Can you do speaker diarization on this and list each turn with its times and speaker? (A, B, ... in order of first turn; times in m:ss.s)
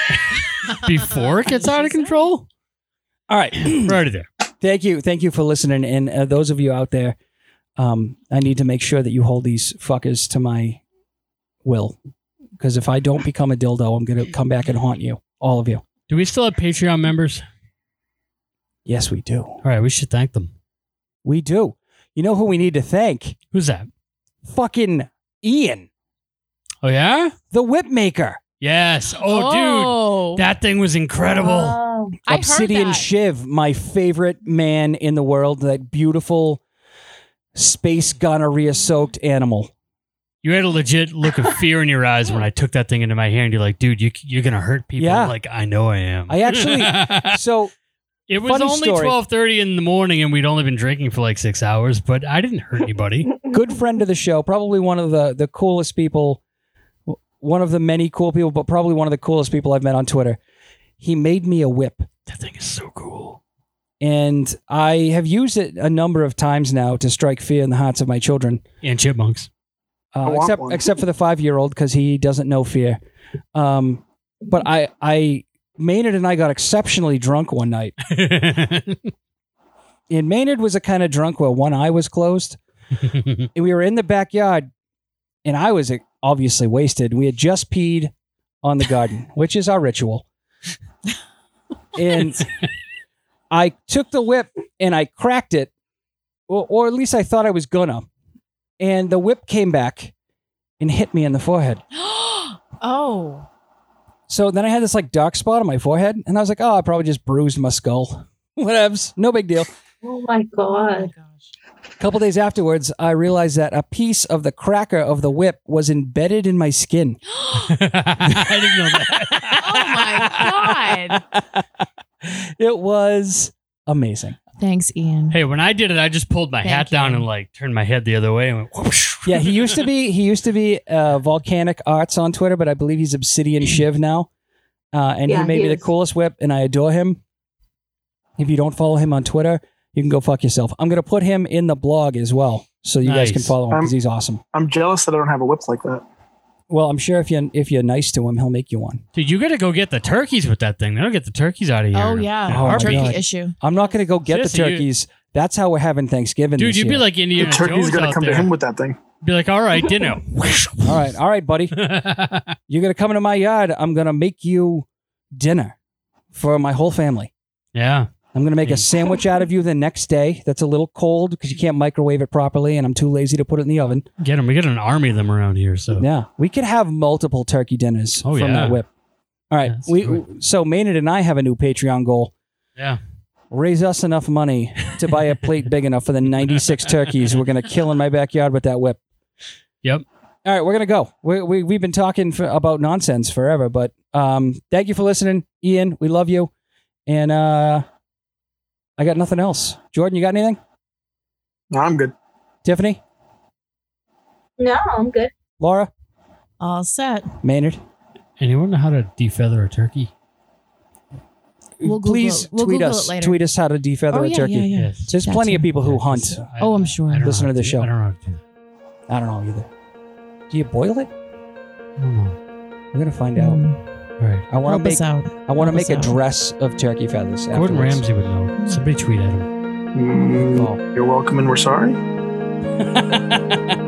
0:00.7-0:02.4 A
0:01.0-0:02.3 B
0:03.3-0:04.0 C
0:03.6-0:04.3 A
0:04.6-0:07.2 C
0:07.8-0:10.8 C
0:11.6-0:12.0 C
0:12.6-0:15.8 C
0:16.1-0:17.4 A
0:18.8-0:19.6 C
0:19.6-0:20.5 A
0:21.2-0:23.4 C
0:23.5-0:23.9 A
0:24.4-0:25.9 C
0:26.8-0:27.3 A
0:27.5-0:28.4 C
0:28.6-0:31.8 A
0:29.2-0:30.4 B
0:31.2-0:32.2 D
0:32.2-0:33.0 B
0:32.3-0:36.6 C
0:37.5-0:39.7 C
0:40.4-0:47.4 A
0:45.0-0:45.3 C
0:46.3-0:47.7 C
0:48.3-0:53.3 A
0:48.4-0:49.2 C
0:53.5-0:56.4 C
0:57.1-1:00.4 C
1:01.0-1:02.1 C
1:02.3-1:03.4 A
1:04.0-1:08.6 C
1:08.8-1:09.5 A
1:10.1-1:13.0 C
1:10.2-1:10.8 E
1:13.5-1:18.0 C
1:18.1-1:19.0 A
1:20.1-1:22.6 C
1:23.5-1:24.7 C
1:25.4-1:28.1 C
1:28.6-1:30.2 C
1:32.0-1:32.4 C
1:33.5-1:35.7 C
1:36.5-1:38.0 C
1:38.8-1:40.1 C
1:40.8-1:41.8 C
1:41.9-1:43.4 B
1:44.3-1:49.7 C
1:50.0-1:51.1 D
1:50.7-1:51.5 B
1:52.0-1:57.2 C
1:57.3-1:57.7 B
1:57.5-2:00.5 A
1:58.3-1:59.5 C
1:59.6-2:01.2 B
2:01.2-2:01.6 C
2:02.2-2:04.4 C
2:04.6-2:05.4 B
2:05.3-2:09.8 A
2:06.6-2:07.3 B
2:09.2-2:14.3 C
2:14.9-2:17.2 C
2:15.3-2:15.9 D
2:18.4-2:24.4 C
2:23.0-2:23.5 A
2:24.5-2:26.0 E
2:26.7-2:29.0 C
2:29.1-2:33.2 A
2:31.9-2:33.6 B
2:32.5-2:37.0 C
2:34.2-2:34.8 A
2:36.6-2:38.5 A
2:37.3-2:39.0 E
2:39.2-2:41.0 A
2:40.8-2:41.7 C
2:41.7-2:42.5 A
2:42.7-2:45.7 C
2:46.3-2:47.3 C
2:47.7-2:48.1 A
2:48.3-2:54.0 C
2:48.6-2:49.0 A
2:54.2-2:56.0 A
2:55.9-2:58.9 C
2:58.2-2:58.8 A
2:59.5-3:02.3 C
2:59.7-3:00.2 A
3:03.5-3:09.0 C
3:10.4-3:16.5 C
3:17.1-3:17.8 C
3:19.0-3:20.6 C
3:21.7-3:22.1 E
3:22.6-3:23.0 C
3:24.6-3:25.3 D
3:25.6-3:25.9 C
3:26.6-3:27.3 B
3:27.4-3:27.8 C
3:28.4-3:30.1 A
3:31.8-3:36.5 C
3:31.8-3:33.4 B
3:34.1-3:35.7 B
3:34.7-3:35.1 A
3:35.8-3:38.4 A
3:36.6-3:37.3 B
3:37.2-3:37.9 C
3:39.1-3:39.7 C
3:40.5-3:41.1 C
3:42.0-3:42.4 A
3:42.9-3:43.6 C
3:43.4-3:43.8 B
3:44.2-3:44.5 A
3:44.5-3:48.0 C
3:44.6-3:46.2 B
3:47.5-3:49.5 A
3:48.6-3:48.8 B
3:49.9-3:52.0 E
3:50.4-3:50.8 C
3:52.8-3:53.8 C